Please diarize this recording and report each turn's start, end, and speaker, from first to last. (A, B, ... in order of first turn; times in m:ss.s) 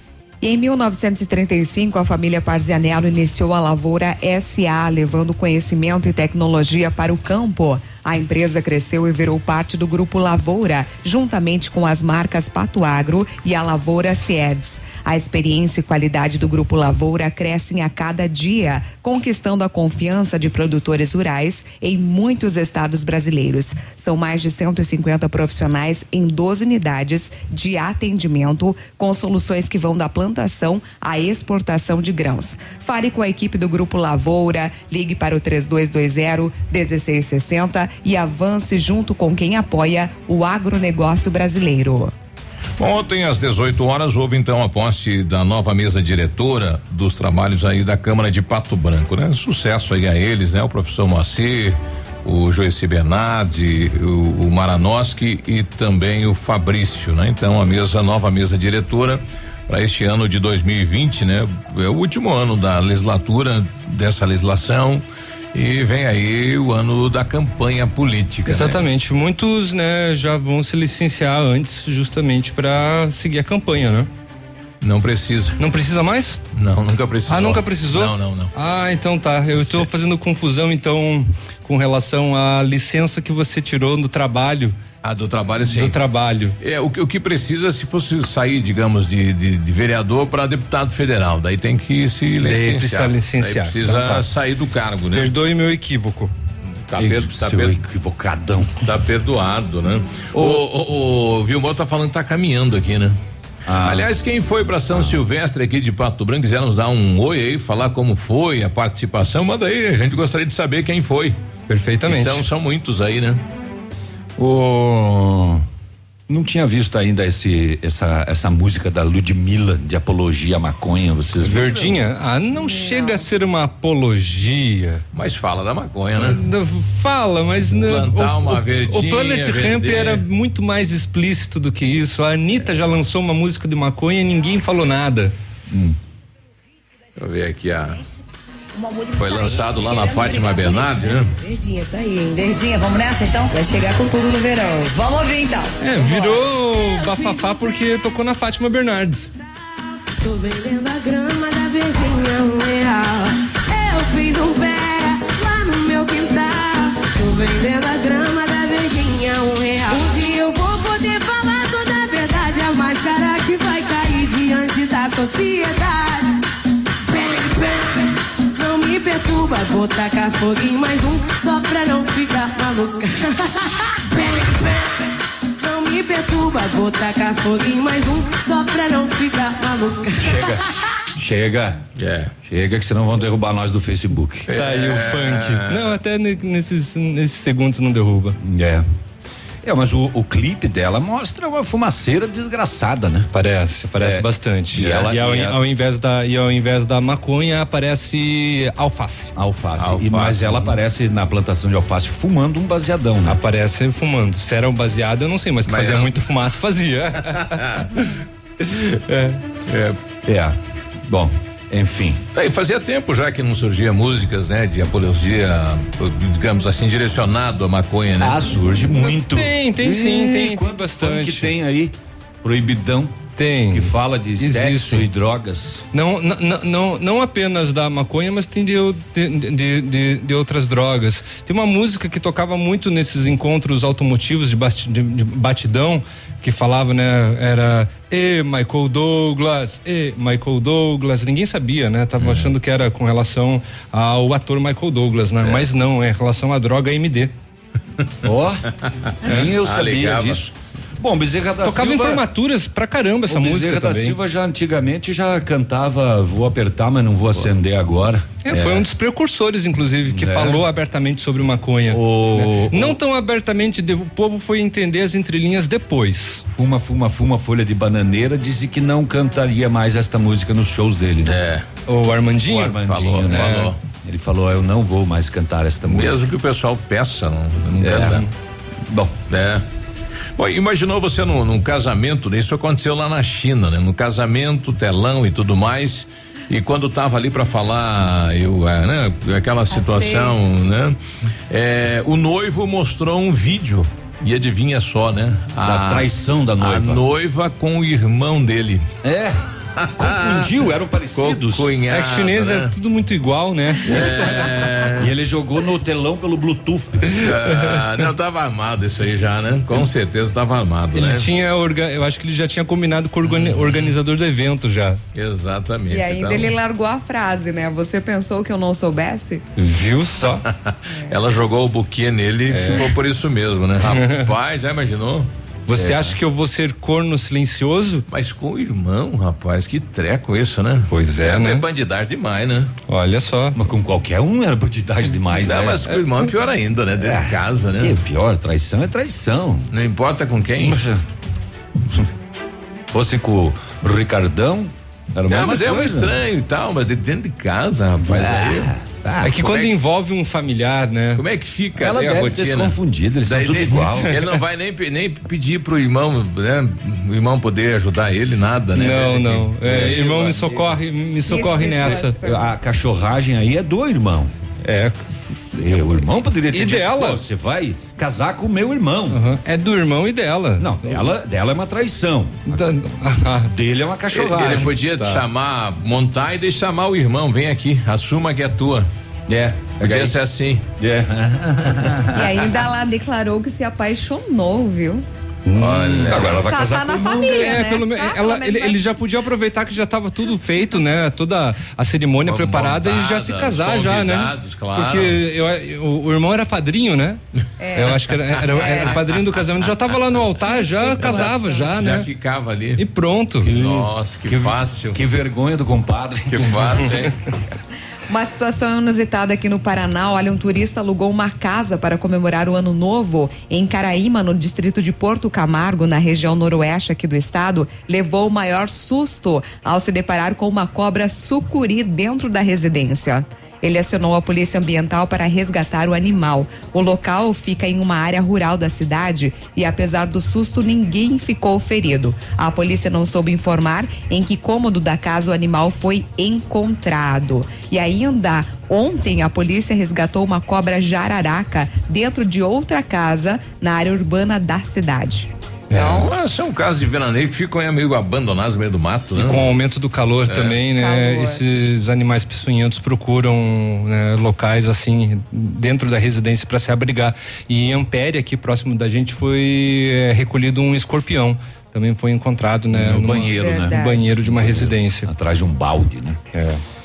0:00.4-0:42.1 A
0:42.8-1:08.8 B
1:08.5-1:14.1 C
1:14.8-1:15.6 B
1:15.6-1:16.4 C
1:16.6-1:18.5 B
1:17.3-1:24.8 C
1:19.6-1:19.9 B
1:25.0-1:26.0 B
1:25.7-1:26.6 C
1:26.6-1:35.3 B
1:32.4-1:34.3 C
1:35.2-1:36.3 C
1:36.9-1:37.8 B
1:37.0-1:38.8 D
1:38.8-1:43.2 B
1:40.4-1:40.6 D
1:43.7-1:44.1 D
1:43.8-1:51.4 B
1:51.7-1:52.4 C
1:52.1-1:53.4 B
1:54.4-1:55.6 D
1:56.3-2:01.8 D
2:01.4-2:05.0 C
2:02.7-2:03.2 A
2:05.1-2:06.4 B
2:06.2-2:15.3 C
2:07.8-2:10.2 B
2:17.2-2:18.0 B
2:18.8-2:26.3 E
2:19.1-2:21.3 B
2:25.8-2:29.3 C
2:30.1-2:46.4 F
2:47.1-2:48.0 F
2:48.6-2:54.9 F
2:55.6-3:00.5 F
3:00.2-3:00.6 D
3:01.2-3:01.8 D
3:02.0-3:02.3 B
3:02.4-3:04.5 D
3:04.5-3:05.9 B
3:04.5-3:08.4 C
3:08.4-3:08.8 D
3:09.6-3:13.3 D
3:13.3-3:19.3 C
3:14.0-3:15.5 D
3:14.8-3:15.4 B
3:19.4-3:23.4 D
3:19.8-3:20.7 B
3:23.3-3:27.7 C
3:25.7-3:26.1 B
3:27.5-3:27.9 B
3:28.7-3:29.4 C
3:29.7-3:30.0 B
3:30.2-3:32.2 D
3:32.3-3:38.4 B
3:38.2-3:43.2 D
3:39.0-3:41.5 C
3:43.4-3:45.1 C
3:43.7-3:45.8 D
3:45.9-4:07.3 C
4:02.2-4:02.5 B
4:08.2-4:08.7 D
4:09.2-4:12.2 D
4:09.6-4:10.4 B
4:11.6-4:14.2 C
4:13.3-4:18.2 D
4:18.4-4:26.4 C
4:20.1-4:20.6 D
4:21.9-4:23.0 D
4:26.5-4:31.4 D
4:31.2-4:31.6 B
4:31.9-4:32.8 C
4:32.5-4:33.8 B
4:32.5-4:36.3 D
4:33.3-4:33.7 C
4:35.9-4:38.2 B
4:37.8-4:38.2 D
4:38.9-4:39.1 D
4:39.3-4:39.6 B
4:40.4-4:51.0 B
4:49.7-4:50.4 A
4:51.5-4:56.1 B
4:55.6-4:57.0 D
4:56.6-4:58.8 B
4:59.0-4:59.4 D
4:59.8-5:00.5 B
5:00.0-5:01.7 D
5:01.2-5:02.7 B
5:01.9-5:04.7 C
5:03.9-5:05.1 B
5:05.0-5:07.2 D
5:07.2-5:11.3 B
5:07.5-5:07.8 C
5:11.0-5:15.0 C
5:13.3-5:14.0 B
5:15.2-5:16.5 B
5:15.9-5:19.4 A
5:19.6-5:20.4 C
5:20.5-5:26.2 B
5:22.5-5:22.9 C
5:23.9-5:24.3 C
5:25.7-5:28.0 C
5:28.1-5:32.7 B
5:30.9-5:31.6 C
5:32.9-5:33.6 C
5:33.6-5:36.0 D
5:35.4-5:38.0 B
5:37.0-5:39.7 D
5:39.7-5:40.8 B
5:40.6-5:41.0 D
5:42.9-5:46.2 D
5:45.3-5:48.7 B
5:48.0-5:49.4 D
5:49.2-5:51.2 C
5:49.4-5:49.7 B
5:51.2-5:59.9 B
5:51.8-5:54.2 D
5:58.8-6:02.2 C
5:59.6-6:00.8 D
6:01.3-6:02.5 A
6:01.9-6:04.3 D
6:04.6-6:04.9 C
6:05.5-6:09.2 D
6:06.5-6:07.2 C
6:09.1-6:11.0 C
6:10.6-6:12.6 D
6:12.5-6:13.5 C
6:13.5-6:14.7 D
6:14.1-6:18.9 B
6:15.0-6:15.2 C
6:19.3-6:20.1 D
6:19.8-6:20.6 B
6:20.8-6:22.4 D
6:22.1-6:25.0 A
6:25.5-6:26.4 C
6:25.7-6:26.4 B
6:25.8-6:27.6 D
6:26.4-6:28.8 A
6:27.0-6:37.2 C
6:32.3-6:35.2 B
6:37.6-6:39.0 A
6:37.8-6:42.1 C
6:40.4-6:41.8 A
6:41.0-6:42.8 B
6:42.8-6:43.8 C
6:43.4-6:45.0 B
6:44.3-6:46.8 D
6:46.3-6:47.2 B
6:48.1-7:25.3 A
7:25.7-7:26.1 C
7:25.7-7:29.5 B
7:29.2-7:45.1 C
7:30.3-7:30.6 B
7:30.8-7:31.4 A
7:42.7-7:46.2 D
7:43.2-7:44.0 A
7:46.3-7:46.6 C